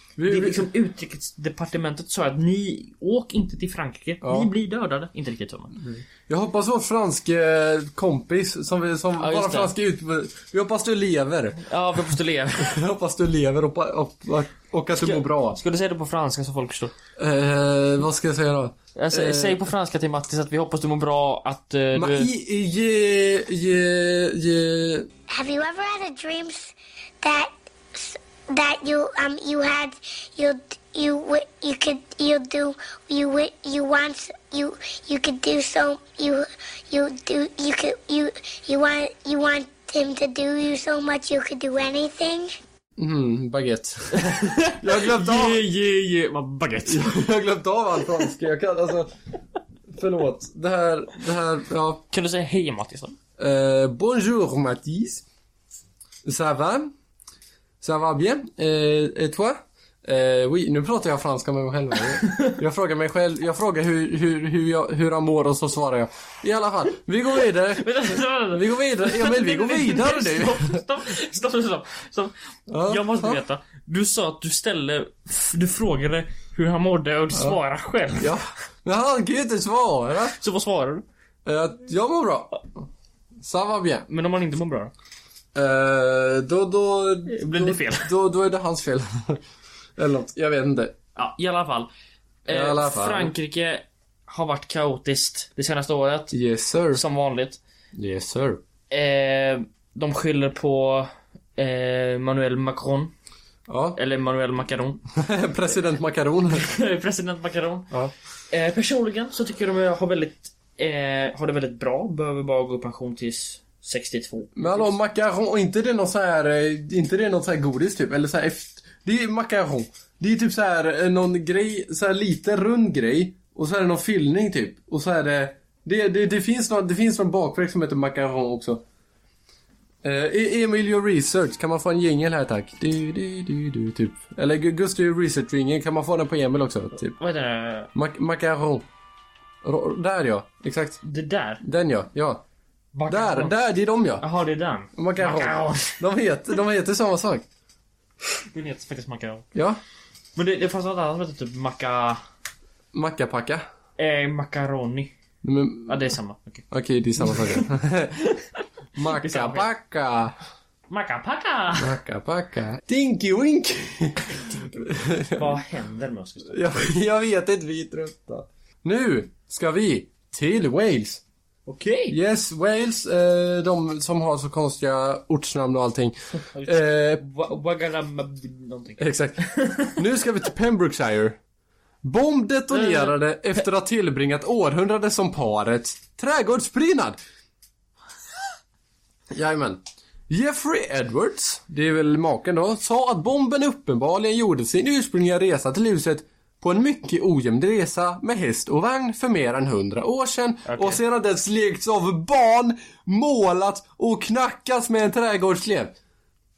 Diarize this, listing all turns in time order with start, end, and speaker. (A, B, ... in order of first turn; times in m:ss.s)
0:00.2-0:00.7 A
0:00.3-0:05.8 B
0:04.2-0:04.5 A
0:05.8-0:15.6 A
0:09.2-0:09.7 B
0:11.6-0:12.8 B
0:15.0-0:16.9 B
0:17.2-0:19.7 A
0:19.0-0:22.3 B
0:21.9-0:25.1 A
0:25.3-0:42.6 C
0:43.0-0:45.6 A
0:44.1-0:47.2 B
0:46.8-0:49.1 A
0:49.9-0:52.0 A
0:52.1-0:53.2 B
0:53.4-0:55.2 A
0:56.2-0:56.9 A
0:57.8-1:10.8 A
1:02.2-1:02.6 B
1:07.8-1:18.3 B
1:12.7-1:13.4 A
1:18.2-1:20.4 A
1:20.4-1:21.0 B
1:21.4-1:22.6 A
1:23.4-1:24.1 A
1:24.1-1:24.9 B
1:25.5-1:29.4 A
1:27.3-1:28.1 B
1:30.0-1:31.0 A
1:31.2-1:31.9 B
1:32.4-1:36.3 B
1:32.5-1:33.3 A
1:36.3-1:37.0 A
1:36.9-1:37.6 B
1:37.9-1:38.6 A
1:38.9-1:43.1 B
1:43.7-1:44.0 A
1:44.0-1:45.0 B
1:45.1-1:46.7 A
1:46.5-1:47.9 B
1:48.5-1:54.9 B
1:54.6-2:08.8 A
2:10.0-2:17.1 A
2:17.1-2:17.9 B
2:17.9-2:18.8 A
2:19.6-2:21.0 A
2:21.0-2:21.6 B
2:21.6-2:22.4 A
2:22.9-2:23.5 B
2:23.1-2:24.2 A
2:24.2-2:26.0 B
2:24.9-2:27.4 A
2:28.5-2:29.5 B
2:29.5-2:29.8 A
2:30.4-2:32.2 B
2:32.9-2:33.6 A
2:34.0-2:35.1 B
2:35.4-2:36.1 A
2:35.9-2:36.6 B
2:36.7-2:38.1 A
2:37.2-2:37.6 B
2:39.0-2:40.3 A
2:39.1-2:39.7 B
2:40.9-2:41.9 B
2:41.8-2:45.6 A
2:44.4-2:46.8 B
2:46.5-2:51.2 A
2:51.7-2:52.2 B
2:52.1-2:57.2 A
2:56.4-3:00.0 B
2:59.0-3:01.4 A
3:02.0-3:07.2 A
3:02.7-3:03.2 B
3:09.3-3:25.9 A
3:20.6-3:21.0 B